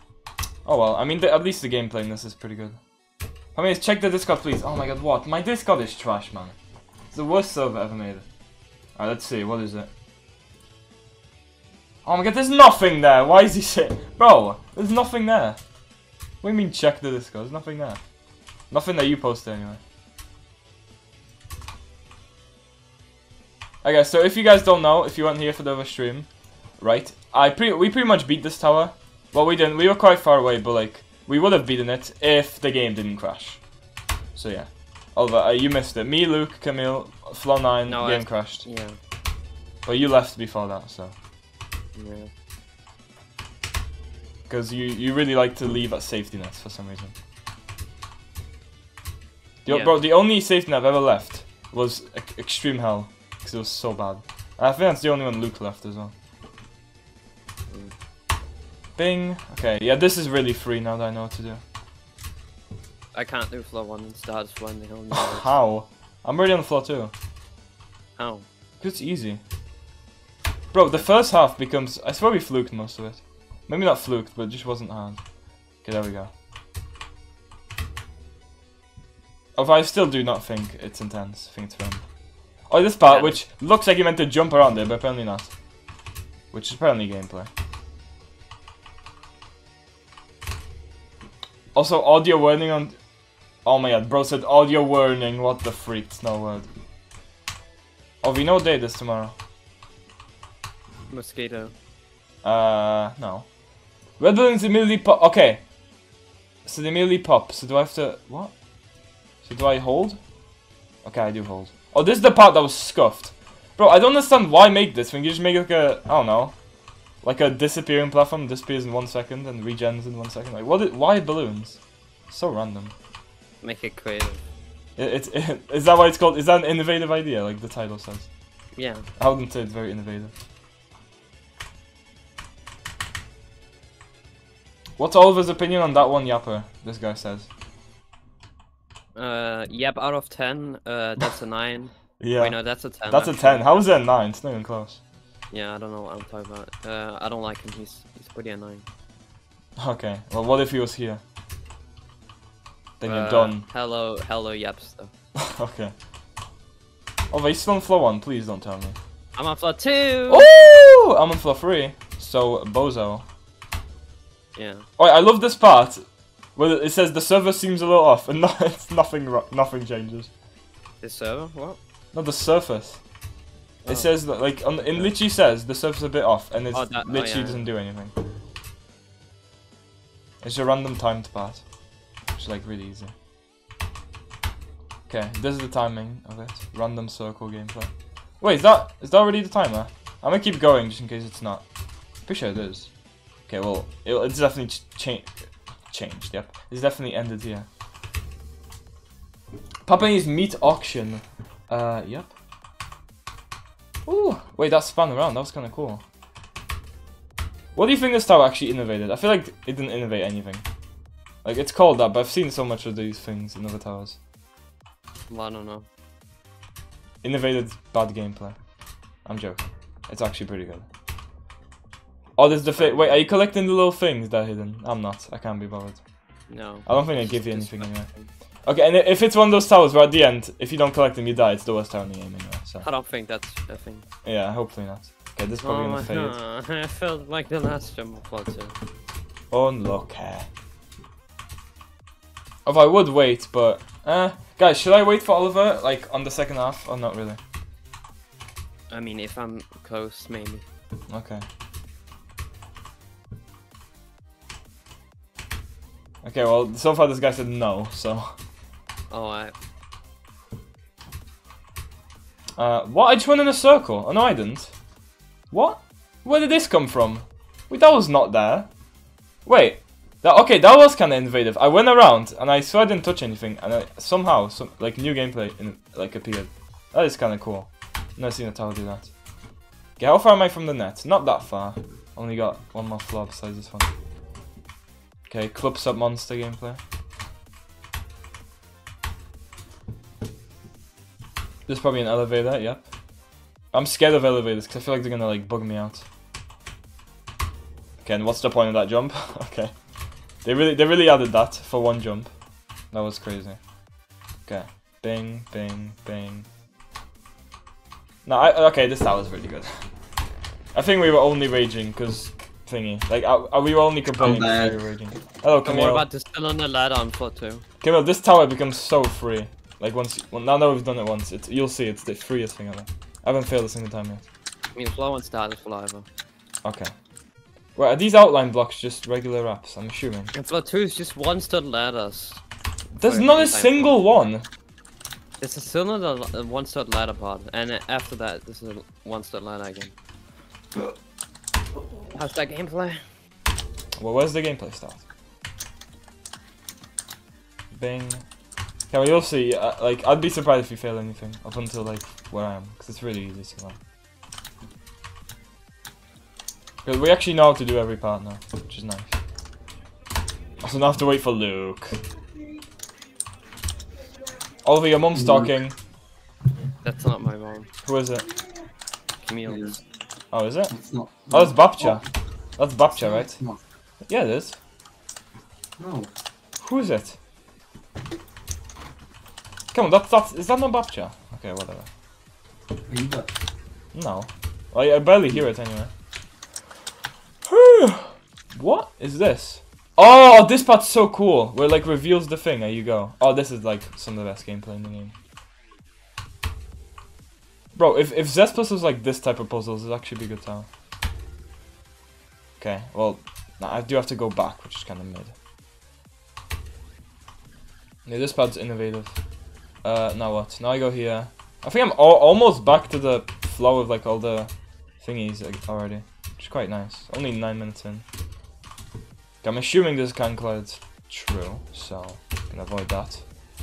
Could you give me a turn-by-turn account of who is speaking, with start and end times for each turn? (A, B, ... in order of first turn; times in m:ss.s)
0:00.6-0:02.8 A
0:03.6-0:06.6 A
0:07.1-0:08.2 A
0:09.0-0:09.9 A
0:12.0-0:15.6 A
0:16.4-0:18.0 A
0:18.7-0:19.8 A
0:23.8-0:26.3 A
0:26.8-0:33.6 A
0:34.3-0:38.6 A
0:37.9-0:39.0 B
0:39.8-0:41.1 A
0:42.0-0:42.3 B
0:44.5-0:47.1 A
0:49.6-0:56.1 A
0:49.7-0:50.0 B
0:59.0-1:01.6 A
1:03.1-1:05.5 B
1:05.1-1:07.1 A
1:08.2-1:08.4 B
1:08.8-1:09.4 A
1:10.7-1:15.2 A
1:15.8-1:16.3 A
1:19.6-1:22.0 A
1:22.7-1:25.5 A
1:23.1-1:23.3 B
1:26.5-1:27.5 A
1:31.7-1:33.0 A
1:33.6-1:36.7 A
1:38.2-1:39.3 A
1:41.1-1:41.7 B
1:42.4-1:43.5 A
1:44.2-1:45.6 A
1:46.6-1:48.5 A
1:49.4-1:50.2 A
1:51.0-1:56.6 A
1:57.2-2:02.9 A
2:03.6-2:04.4 B
2:05.0-2:08.3 A
2:08.8-2:09.0 B
2:09.2-2:10.3 A
2:15.0-2:17.5 A
2:19.1-2:23.8 B
2:22.2-2:22.6 A
2:23.1-2:25.0 A
2:25.5-2:28.9 B
2:29.8-2:31.2 A
2:33.0-2:33.6 A
2:33.0-2:35.1 B
2:35.4-2:35.9 A
2:37.3-2:39.0 A
2:39.4-2:40.5 B
2:40.3-2:43.2 A
2:44.6-2:44.9 B
2:45.0-2:46.0 A
2:46.6-2:50.3 A
2:51.0-2:51.8 B
2:52.1-2:53.0 A
2:53.8-2:54.1 B
2:53.9-2:58.1 A
2:56.7-2:57.6 B
3:00.4-3:01.6 A
3:02.4-3:03.1 A
3:05.1-3:11.6 A
3:12.2-3:12.9 A
3:13.5-3:15.3 A
3:15.9-3:17.7 A
3:19.8-3:22.3 A
3:24.0-3:26.0 A
3:27.7-3:30.6 A
3:31.4-3:34.2 A
3:35.3-3:35.8 B
3:37.2-3:38.6 A
3:39.2-3:40.9 A
3:42.4-3:46.0 A
3:42.8-3:43.2 B
3:46.5-3:48.3 B
3:46.9-3:48.1 A
3:48.6-3:52.8 A
3:52.8-3:54.0 B
3:54.2-3:56.4 A
3:55.6-3:58.7 B
3:59.5-4:00.4 A
4:02.6-4:07.4 A
4:08.9-4:10.6 B
4:11.1-4:11.4 A
4:16.2-4:18.3 A
4:19.1-4:19.5 B
4:22.6-4:24.7 A
4:25.5-4:28.7 A
4:29.4-4:39.1 A
4:40.0-4:43.9 A
4:45.3-4:46.8 A
4:51.7-4:52.9 A
4:53.7-4:56.1 A
4:58.0-4:59.7 A
5:00.4-5:02.3 A
5:02.9-5:03.6 A
5:04.5-5:06.5 A
5:08.2-5:09.8 A
5:10.7-5:16.0 A
5:14.2-5:14.8 C
5:15.6-5:17.6 B
5:17.8-5:24.2 A
5:24.7-5:26.0 B
5:26.6-5:26.9 A
5:27.8-5:30.3 A
5:30.3-5:32.4 B
5:33.0-5:34.4 A
5:33.0-5:34.0 B
5:35.4-5:39.9 B
5:42.1-5:43.0 B
5:44.0-5:45.0 A
5:47.7-5:48.2 A
5:48.9-5:53.8 A
5:56.8-5:59.1 A
6:00.6-6:02.0 A
6:04.6-6:05.8 A
6:05.1-6:05.6 C
6:06.8-6:07.7 B
6:07.8-6:08.2 A
6:09.2-6:09.8 B
6:09.5-6:09.8 C
6:10.3-6:10.7 A
6:10.7-6:12.0 C
6:11.3-6:12.0 A
6:12.6-6:13.4 A
6:13.0-6:13.6 C
6:14.1-6:14.6 A
6:15.8-6:16.1 C
6:16.6-6:17.2 A
6:19.7-6:21.9 A
6:22.9-6:23.3 C
6:23.9-6:25.9 A
6:27.4-6:35.1 A
6:37.8-6:40.7 A
6:42.6-6:45.3 A
6:48.0-6:49.2 A
6:49.8-6:58.0 A
6:59.4-7:03.2 A